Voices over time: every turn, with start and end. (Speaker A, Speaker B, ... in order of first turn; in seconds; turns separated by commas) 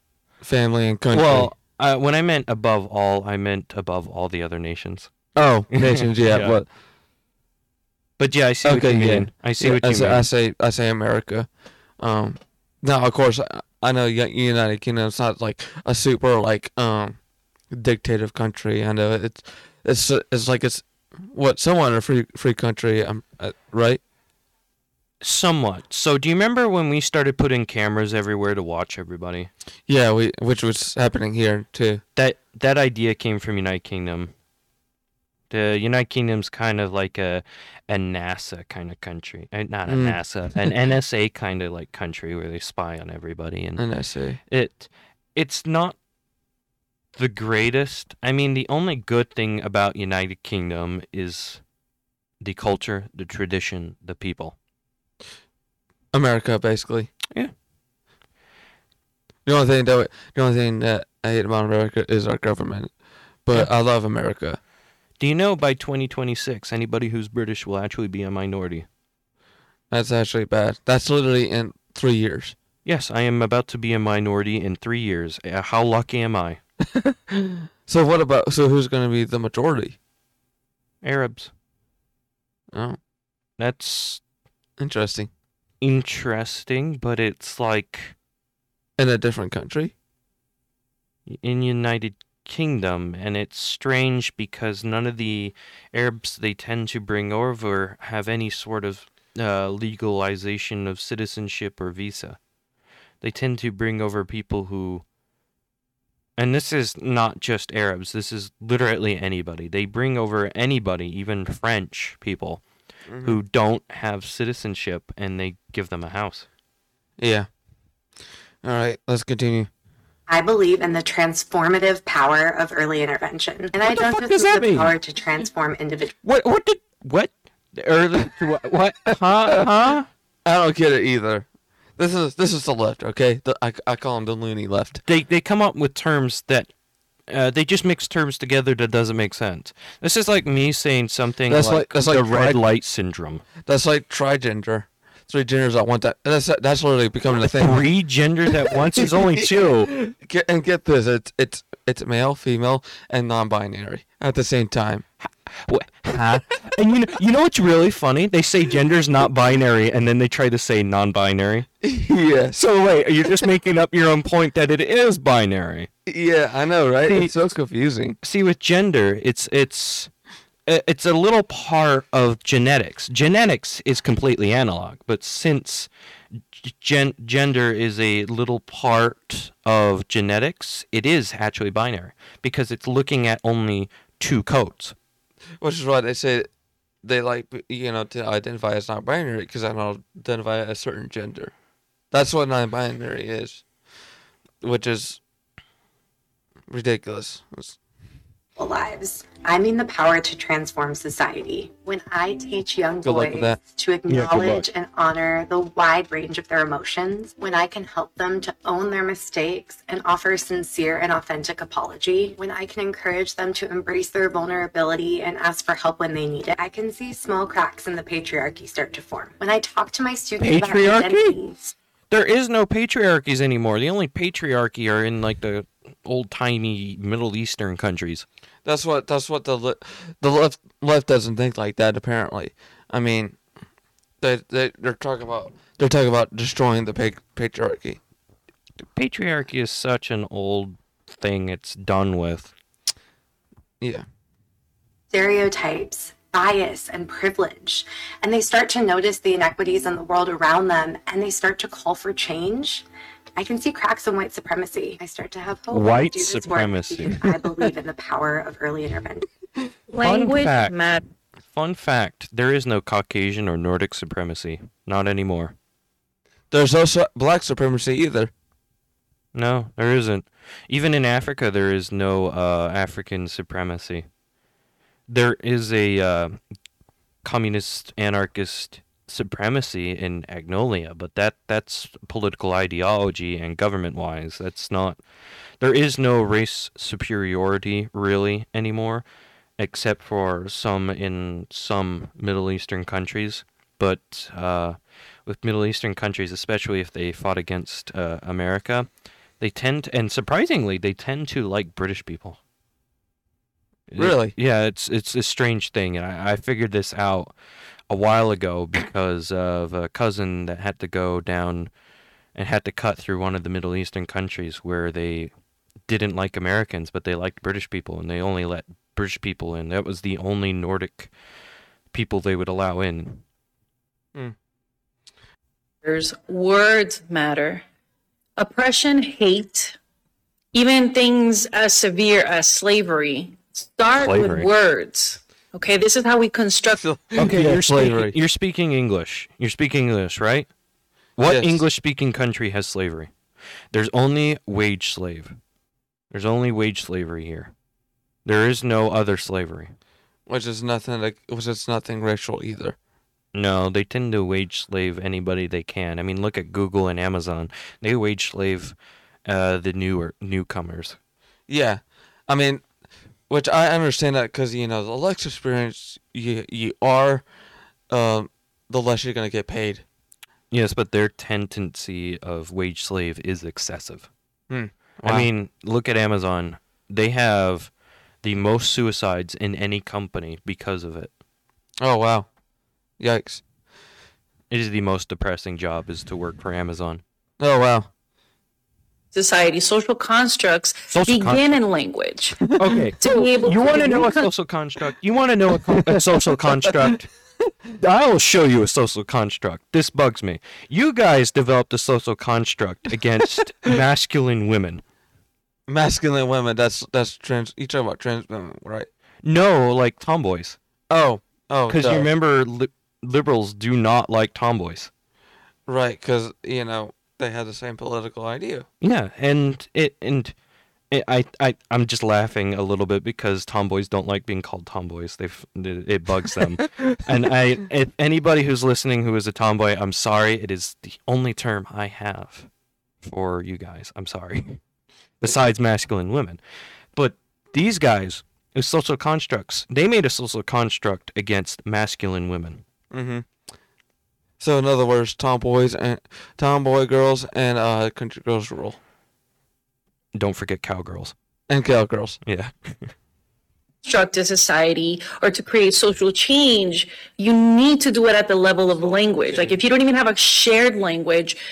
Speaker A: 0.4-1.5, Speaker B: 1.1-5.1, Speaker A: 5.3-6.7, Speaker B: 5.7-6.6, Speaker B: 8.2-10.3, Speaker A: 8.6-11.5, Speaker A: 12.0-24.0, Speaker B: 25.2-29.5, Speaker A: 29.9-32.0, Speaker B: 32.1-34.3, Speaker B: 35.5-43.8, Speaker A: 39.9-40.7, Speaker A: 43.8-44.4, Speaker B: 44.5-46.0, Speaker B: 47.1-51.6, Speaker B: 52.4-54.5, Speaker A: 56.1-57.1, Speaker A: 59.5-62.9, Speaker A: 63.4-64.6, Speaker B: 65.2-68.9, Speaker A: 69.9-72.5, Speaker B: 72.8-76.6, Speaker A: 76.9-80.0, Speaker B: 81.0-81.5, Speaker A: 82.7-83.0, Speaker B: 83.6-84.2, Speaker A: 84.8-85.3, Speaker B: 85.8-88.1, Speaker A: 89.0-89.9, Speaker B: 91.3-102.4, Speaker B: 103.2-105.0, Speaker B: 106.4-112.6, Speaker A: 113.1-113.4, Speaker B: 113.2-116.5, Speaker A: 117.2-117.5, Speaker A: 118.6-119.7, Speaker C: 120.3-126.1, Speaker B: 123.8-124.9, Speaker B: 126.2-130.1, Speaker A: 130.4-135.0, Speaker B: 135.0-136.7, Speaker B: 137.3-143.4, Speaker A: 141.5-142.6, Speaker A: 143.6-147.8, Speaker B: 147.3-149.9, Speaker A: 148.5-155.0, Speaker B: 155.2-161.7, Speaker A: 161.8-162.6, Speaker B: 162.6-165.9, Speaker A: 166.1-168.2, Speaker B: 168.2-170.1, Speaker B: 170.7-175.9, Speaker B: 176.6-184.9, Speaker A: 185.6-186.5, Speaker A: 187.0-191.5, Speaker A: 192.1-193.6, Speaker A: 194.6-195.2, Speaker A: 196.7-197.8, Speaker C: 198.6-221.7, Speaker A: 203.0-203.6, Speaker B: 204.1-204.6, Speaker B: 220.4-221.4, Speaker B: 222.1-228.2, Speaker A: 228.6-233.4, Speaker A: 234.2-238.0, Speaker B: 238.9-242.5, Speaker C: 245.1-252.8, Speaker C: 253.3-259.3, Speaker B: 255.7-257.3, Speaker D: 259.9-261.0, Speaker B: 260.0-260.8, Speaker B: 261.5-265.5, Speaker A: 266.5-268.3, Speaker B: 269.3-274.1, Speaker B: 275.1-276.4, Speaker B: 277.2-285.0, Speaker B: 285.6-289.0, Speaker B: 289.6-298.9, Speaker B: 299.4-302.4, Speaker B: 303.9-307.4, Speaker A: 304.0-304.3, Speaker B: 307.9-311.7, Speaker B: 312.3-315.3, Speaker B: 315.9-321.1, Speaker B: 321.9-323.2, Speaker D: 325.8-327.6, Speaker D: 328.4-329.8, Speaker D: 330.5-336.8, Speaker B: 333.9-334.5, Speaker A: 336.8-338.1, Speaker B: 337.2-340.5, Speaker B: 341.1-343.1, Speaker A: 341.2-341.6, Speaker B: 343.7-345.4, Speaker B: 346.1-347.5, Speaker B: 348.2-349.7, Speaker A: 350.3-352.8, Speaker B: 353.3-361.0, Speaker A: 361.5-362.6, Speaker A: 363.3-367.2, Speaker A: 367.9-369.8, Speaker B: 370.5-374.1, Speaker A: 374.5-375.3, Speaker B: 375.0-381.1, Speaker A: 381.8-382.3, Speaker A: 383.0-383.4, Speaker B: 384.5-387.0, Speaker A: 387.4-387.9, Speaker D: 389.1-392.4, Speaker B: 390.9-391.5, Speaker B: 392.6-397.1, Speaker D: 393.0-394.3, Speaker A: 395.7-396.9, Speaker B: 397.8-404.8, Speaker A: 405.7-408.9, Speaker B: 409.2-410.6, Speaker A: 410.9-412.1, Speaker B: 411.7-414.9, Speaker A: 415.7-418.7, Speaker B: 418.8-420.3, Speaker B: 420.9-432.5, Speaker B: 433.0-434.6, Speaker B: 435.2-436.4, Speaker B: 436.9-442.6, Speaker A: 442.9-443.3, Speaker A: 444.4-448.8, Speaker B: 450.1-451.1, Speaker A: 451.5-452.2, Speaker B: 452.2-452.9, Speaker D: 453.8-461.4